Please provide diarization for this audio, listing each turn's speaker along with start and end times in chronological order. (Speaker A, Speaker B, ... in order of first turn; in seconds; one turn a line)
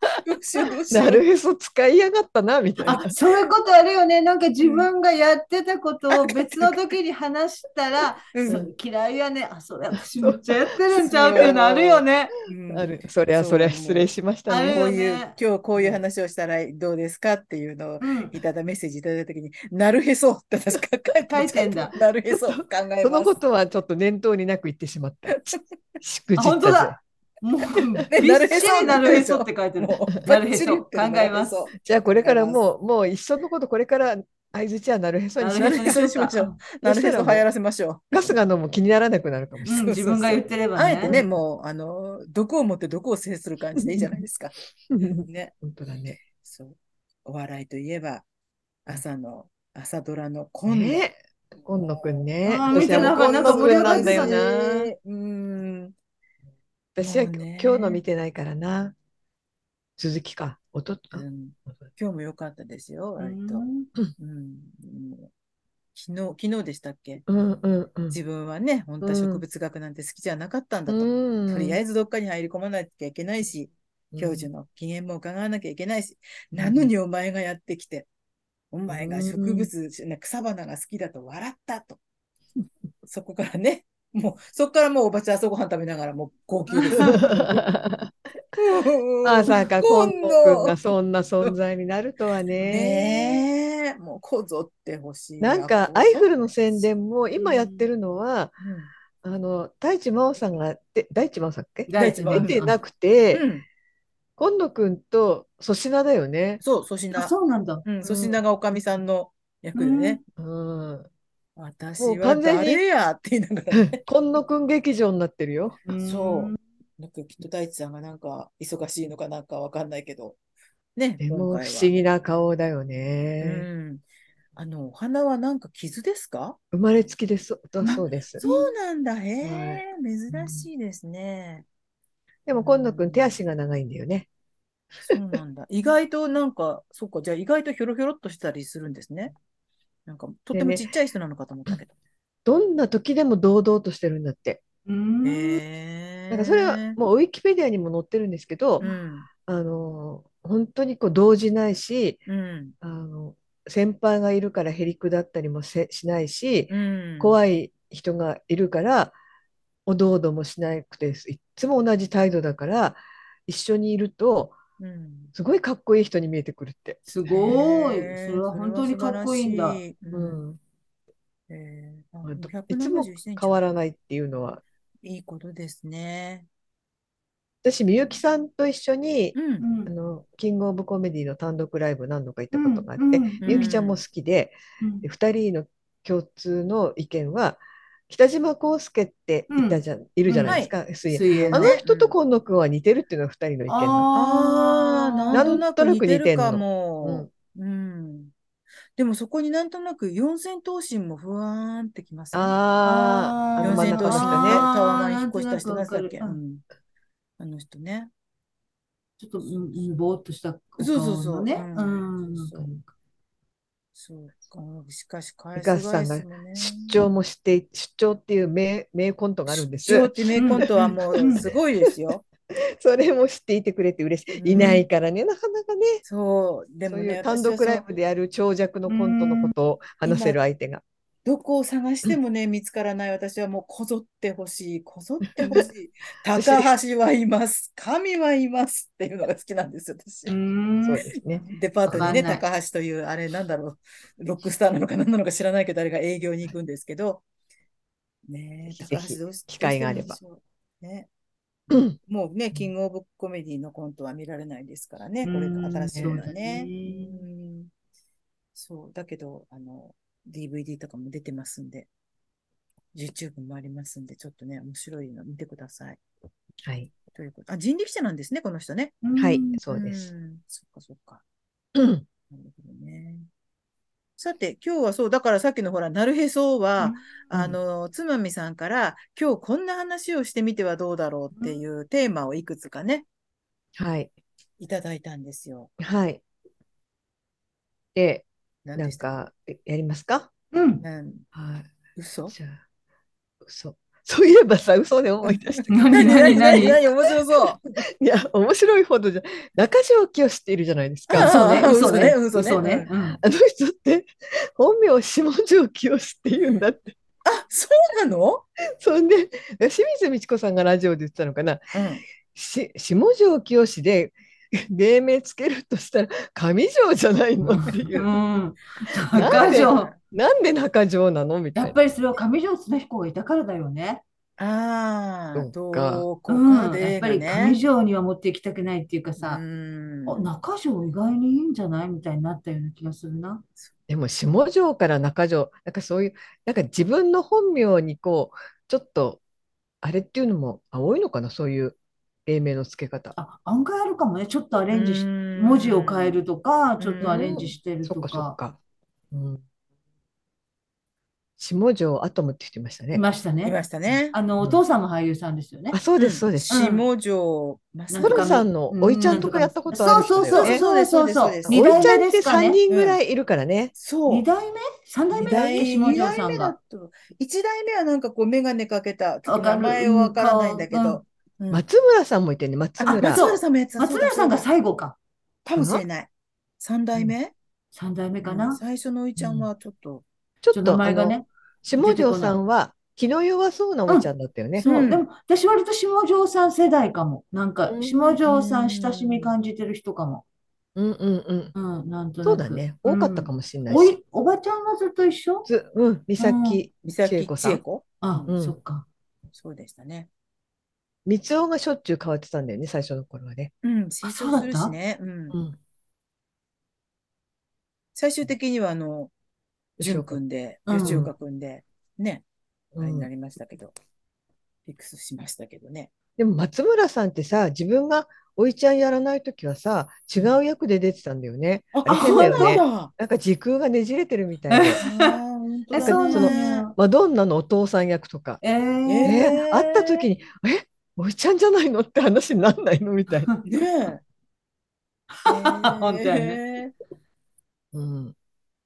Speaker A: 0.2-1.2
Speaker B: 0.9-3.1
Speaker C: 2.8-12.3
Speaker A: 4.6-4.9
Speaker A: 8.3-8.7
Speaker B: 10.2-10.5
Speaker A: 10.9-14.1
Speaker B: 12.7-14.8
Speaker C: 14.5-15.3
Speaker A: 14.7-23.4
Speaker C: 18.0-18.4
Speaker C: 21.3-21.9
Speaker B: 22.3-27.0
Speaker A: 25.3-25.6
Speaker C: 26.4-31.6
Speaker A: 28.1-32.6
Speaker B: 31.8-35.9
Speaker C: 35.4-36.6
Speaker A: 35.6-38.3
Speaker B: 36.8-37.5
Speaker B: 38.1-39.8
Speaker C: 39.7-41.2
Speaker A: 39.7-44.6
Speaker B: 41.0-41.3
Speaker B: 44.9-46.2
Speaker A: 45.2-45.5
Speaker A: 46.4-48.2
Speaker A: 48.9-51.0
Speaker B: 50.7-54.9
Speaker C: 52.4-54.5
Speaker A: 52.7-55.9
Speaker B: 57.0-59.0
Speaker A: 57.0-58.0
Speaker B: 60.0-61.2
Speaker A: 61.1-63.7
Speaker C: 63.2-63.9
Speaker A: 64.2-65.3
Speaker A: 66.0-67.2
Speaker B: 67.3-68.2
Speaker A: 68.1-78.1
Speaker B: 69.0-69.4
Speaker B: 70.9-71.8
Speaker B: 74.1-74.5
Speaker B: 76.5-76.9
Speaker A: 78.7-82.0
Speaker B: 78.9-79.7
Speaker A: 83.1-87.6
Speaker C: 86.7-87.3
Speaker B: 87.0-88.1
Speaker A: 88.5-90.8
Speaker B: 89.2-93.4
Speaker C: 92.5-92.8
Speaker A: 92.7-96.9
Speaker B: 95.4-98.6
Speaker C: 97.4-97.9
Speaker A: 98.6-98.9
Speaker B: 99.2-103.5
Speaker C: 101.9-102.8
Speaker A: 102.0-102.6
Speaker A: 103.3-103.7
Speaker B: 104.4-106.6
Speaker A: 106.6-107.3
Speaker C: 107.1-107.9
Speaker A: 107.8-110.2
Speaker B: 108.0-108.4
Speaker C: 109.8-110.2
Speaker B: 110.4-111.1
Speaker A: 111.6-114.0
Speaker B: 112.0-112.8
Speaker B: 113.7-115.8
Speaker C: 115.9-116.6
Speaker A: 116.0-120.4
Speaker A: 121.0-121.9
Speaker B: 121.2-123.7
Speaker A: 123.4-124.0
Speaker A: 124.6-126.6
Speaker B: 126.7-128.4
Speaker A: 127.8-131.7
Speaker C: 128.4-128.7
Speaker B: 129.4-129.8
Speaker B: 132.5-134.3
Speaker A: 132.5-133.4
Speaker A: 135.1-139.3
Speaker A: 140.1-141.9
Speaker B: 140.5-140.9
Speaker B: 142.5-144.6
Speaker C: 144.9-145.6
Speaker A: 145.2-147.0
Speaker B: 146.3-148.8
Speaker A: 148.8-149.3
Speaker B: 149.5-152.2
Speaker A: 152.3-152.7
Speaker B: 152.8-159.1
Speaker A: 156.7-157.4
Speaker B: 159.9-164.6
Speaker A: 164.8-165.3
Speaker B: 165.3-167.0
Speaker C: 167.1-169.8
Speaker A: 167.3-170.4
Speaker B: 170.1-170.6
Speaker A: 171.5-173.6
Speaker B: 172.2-174.6
Speaker A: 175.0-176.5
Speaker B: 177.6-194.1
Speaker A: 179.3-179.7
Speaker C: 179.6-179.9
Speaker C: 182.5-183.7
Speaker A: 183.4-184.0
Speaker C: 184.8-185.1
Speaker C: 189.5-191.8
Speaker A: 190.4-192.2
Speaker C: 193.7-195.6
Speaker A: 194.1-198.3
Speaker B: 195.3-197.3
Speaker A: 199.0-202.6
Speaker B: 202.3-204.7
Speaker C: 202.8-206.4
Speaker A: 203.6-206.6
Speaker A: 207.4-208.1
Speaker C: 209.2-212.9
Speaker A: 209.5-209.8
Speaker A: 210.8-212.7
Speaker A: 213.9-217.0
Speaker B: 215.6-221.6
Speaker A: 219.5-222.2
Speaker C: 220.3-221.5
Speaker B: 222.5-226.0
Speaker A: 224.4-224.8
Speaker A: 226.1-227.8
Speaker B: 226.9-230.8
Speaker C: 228.9-229.5
Speaker A: 230.0-230.4
Speaker A: 231.2-240.3
Speaker B: 235.4-235.7
Speaker B: 236.4-236.7
Speaker C: 240.3-241.1
Speaker B: 240.8-242.2
Speaker A: 241.4-247.2
Speaker C: 241.9-242.4
Speaker A: 248.3-251.1
Speaker B: 248.7-250.2
Speaker B: 251.7-252.0
Speaker A: 252.0-257.7
Speaker C: 255.2-257.2
Speaker B: 255.9-256.2
Speaker A: 258.6-261.9
Speaker A: 262.9-266.0
Speaker B: 266.6-266.9
Speaker A: 267.1-269.0
Speaker C: 269.0-269.6
Speaker B: 269.2-270.1
Speaker A: 269.7-271.2
Speaker B: 271.8-272.1
Speaker A: 272.3-273.3
Speaker A: 274.2-283.1
Speaker B: 277.3-277.6
Speaker B: 283.8-284.1
Speaker A: 284.6-285.7
Speaker B: 285.8-286.2
Speaker B: 287.9-290.3
Speaker A: 288.6-289.0
Speaker C: 290.5-290.8
Speaker A: 290.8-291.3
Speaker B: 291.3-291.7
Speaker A: 292.0-292.3
Speaker B: 292.3-292.6
Speaker B: 293.4-297.1
Speaker A: 295.3-297.6
Speaker C: 295.7-296.8
Speaker B: 298.0-301.7
Speaker A: 301.1-302.9
Speaker C: 301.1-303.2
Speaker B: 303.2-307.0
Speaker A: 307.3-308.4
Speaker B: 308.8-311.7
Speaker A: 311.7-312.0
Speaker B: 312.3-318.1
Speaker C: 317.5-319.9
Speaker B: 319.1-321.8
Speaker A: 319.2-320.0
Speaker C: 321.6-324.0
Speaker A: 324.4-327.6
Speaker B: 325.4-326.1
Speaker C: 326.3-329.4
Speaker A: 329.2-330.2
Speaker C: 330.1-333.4
Speaker B: 333.9-339.2
Speaker B: 339.8-343.1
Speaker C: 343.2-348.4
Speaker A: 344.7-346.2
Speaker A: 346.8-347.5
Speaker B: 347.0-348.6
Speaker B: 349.1-349.4
Speaker B: 351.4-353.0
Speaker C: 352.9-353.6
Speaker A: 353.4-354.2
Speaker B: 353.9-354.6
Speaker C: 354.1-355.8
Speaker B: 355.7-356.5
Speaker A: 356.0-358.4
Speaker C: 356.5-356.9
Speaker C: 357.9-362.6
Speaker B: 358.0-360.6
Speaker A: 360.3-361.9
Speaker B: 361.5-363.7
Speaker A: 362.7-363.0
Speaker A: 363.8-364.3
Speaker C: 364.1-366.6
Speaker A: 365.1-371.6
Speaker C: 369.3-371.0
Speaker B: 371.5-373.2
Speaker A: 372.8-374.5
Speaker C: 372.9-375.0
Speaker A: 375.4-376.1
Speaker B: 375.6-375.8
Speaker A: 376.6-377.3
Speaker C: 377.7-378.6
Speaker A: 378.2-380.1
Speaker C: 379.2-379.5
Speaker B: 380.4-384.6
Speaker C: 380.5-381.3
Speaker C: 381.8-382.4
Speaker C: 383.9-390.2
Speaker A: 384.6-385.0
Speaker B: 387.7-388.2
Speaker A: 388.2-389.3
Speaker B: 390.8-391.5
Speaker C: 391.5-395.5
Speaker B: 392.2-394.0
Speaker B: 395.5-397.6
Speaker C: 396.2-396.6
Speaker A: 396.8-398.3
Speaker C: 398.0-398.9
Speaker B: 398.3-398.6
Speaker A: 399.4-400.1
Speaker B: 401.1-403.5
Speaker A: 403.6-405.4
Speaker C: 404.0-404.7
Speaker B: 405.3-405.6
Speaker A: 407.9-409.1
Speaker B: 409.8-410.2
Speaker A: 409.8-412.2
Speaker C: 410.7-411.1
Speaker B: 410.8-411.1
Speaker B: 412.8-413.1
Speaker A: 412.8-413.7
Speaker A: 414.7-415.9
Speaker B: 416.2-424.8
Speaker A: 421.7-422.9
Speaker C: 421.9-422.6
Speaker C: 424.5-425.2
Speaker A: 424.8-426.7
Speaker C: 425.7-426.7
Speaker B: 425.8-428.4
Speaker C: 428.4-429.4
Speaker A: 428.9-430.1
Speaker B: 429.0-433.3
Speaker A: 433.4-434.0
Speaker C: 435.2-436.4
Speaker A: 435.3-436.7
Speaker B: 437.7-438.1